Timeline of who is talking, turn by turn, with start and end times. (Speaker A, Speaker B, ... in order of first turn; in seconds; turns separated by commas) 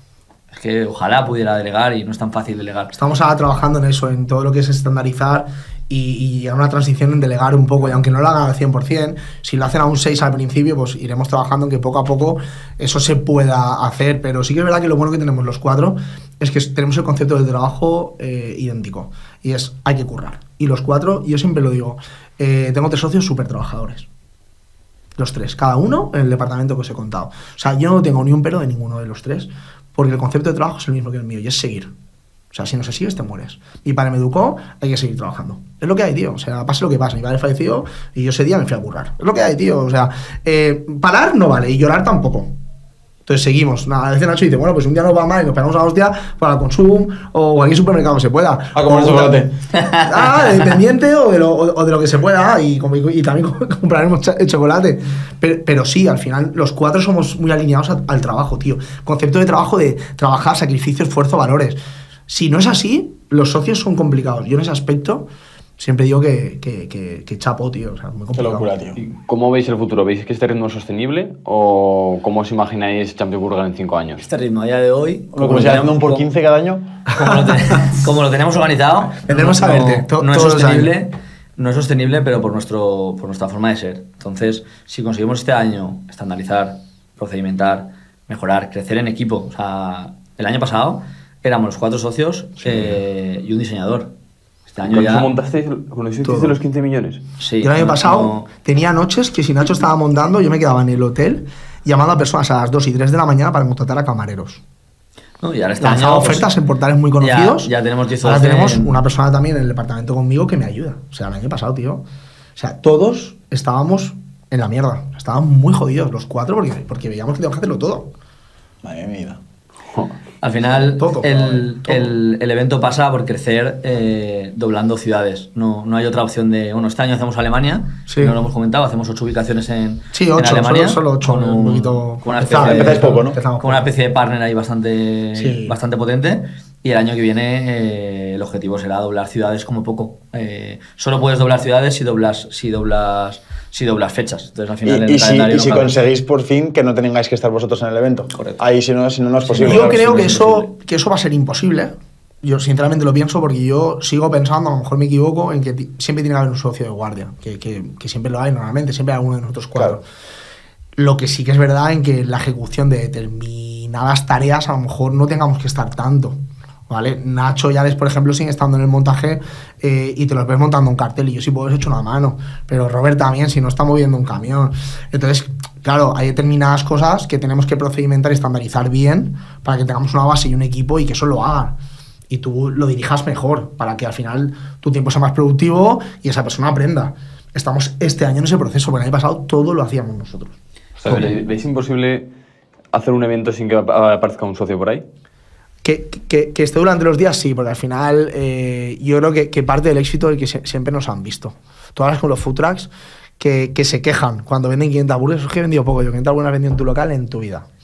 Speaker A: 0.5-2.9, Speaker B: 2.9-24.1, Speaker B: 25.2-31.9, Speaker B: 32.5-42.5, Speaker B: 43.3-68.7, Speaker C: 48.8-49.5, Speaker A: 49.7-50.6, Speaker C: 68.3-69.0, Speaker D: 69.0-74.2, Speaker A: 74.2-76.2, Speaker C: 75.3-76.9, Speaker A: 77.1-94.1, Speaker B: 77.2-77.5, Speaker B: 79.2-80.9, Speaker A: 94.7-95.3, Speaker D: 94.8-97.2, Speaker B: 96.2-96.6, Speaker A: 97.4-98.5, Speaker B: 97.6-104.6, Speaker A: 105.4-106.5, Speaker B: 105.8-107.7, Speaker A: 107.2-109.0, Speaker B: 108.2-112.0, Speaker B: 112.6-118.1, Speaker C: 118.8-119.4, Speaker A: 120.4-146.0, Speaker B: 120.9-122.1, Speaker B: 128.1-128.4, Speaker B: 130.1-133.8, Speaker C: 132.5-133.4, Speaker B: 135.4-135.8, Speaker C: 144.8-150.6, Speaker A: 148.3-148.6, Speaker A: 149.4-150.7, Speaker B: 149.6-160.1, Speaker B: 161.0-166.4, Speaker B: 166.9-181.8, Speaker B: 182.3-191.3, Speaker D: 191.0-192.3, Speaker D: 192.9-195.0, Speaker B: 195.8-207.7